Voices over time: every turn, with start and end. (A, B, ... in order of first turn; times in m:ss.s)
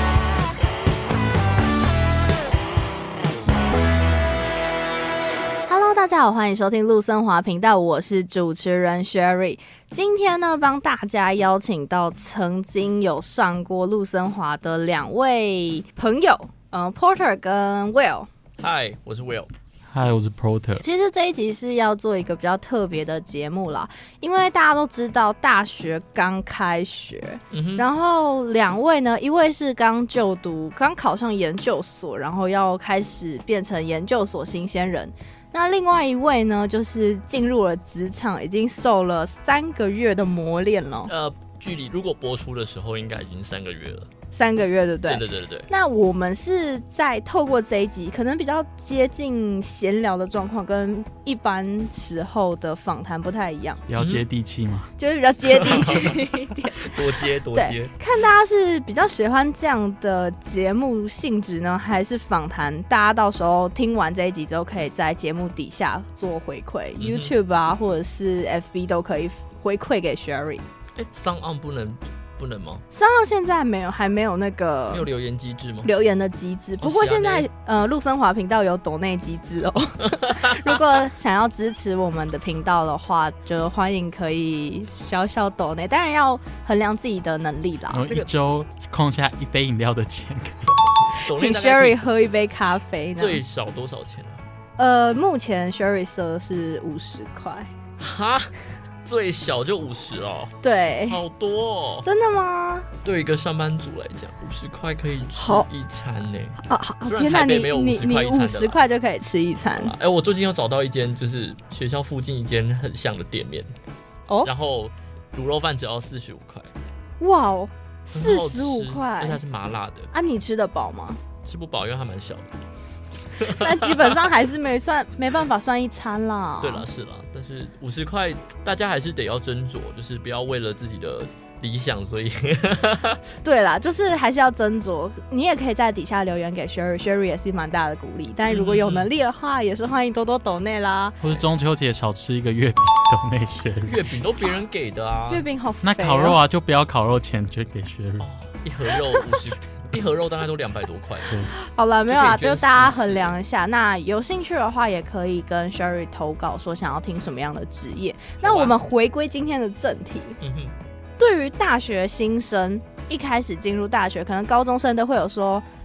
0:05.7-0:18.3 A
0:18.6-0:19.5 B
0:19.9-0:20.8 C
0:20.8-0:41.1 A
0:27.5-0:27.8 B
0:41.0-0:44.1 B
0:44.3-0:53.8 A
0:45.1-0:45.7 B
0:53.9-0:54.9 C
0:54.0-0:54.2 B
0:55.0-1:10.6 A
0:55.6-0:56.2 B
0:56.8-0:57.9 B
1:07.0-1:07.3 B
1:11.0-1:12.8 B
1:12.9-1:15.1 A
1:14.9-1:15.9 B
1:15.8-1:28.1 A
1:16.8-1:17.5 B
1:20.0-1:20.8 B
1:27.9-1:30.9 C
1:30.7-1:32.1 B
1:31.2-1:33.4 A
1:33.2-1:34.4 B
1:34.8-1:37.7 A
1:38.0-1:38.5 B
1:39.0-1:40.5 B
1:40.6-1:41.2 A
1:41.1-1:42.1 B
1:42.0-1:42.9 A
1:43.0-1:48.8 B
1:45.3-1:45.7 A
1:46.6-1:49.9 A
1:49.8-1:53.7 B
1:54.4-1:56.7 B
1:57.2-1:59.4 A
1:58.1-2:00.1 B
2:00.1-2:01.2 A
2:01.4-2:02.6 B
2:03.3-2:04.3 B
2:03.4-2:06.8 A
2:06.6-2:13.2 B
2:13.4-2:21.2 A
2:18.5-2:19.1 B
2:21.2-2:24.1 C
2:23.9-2:25.4 B
2:25.3-2:26.4 A
2:25.8-2:28.3 C
2:28.2-2:31.5 B
2:31.6-2:40.4 A
2:32.1-2:33.4 B
2:38.4-2:38.7 B
2:40.4-2:40.7 B
2:41.2-2:45.6 A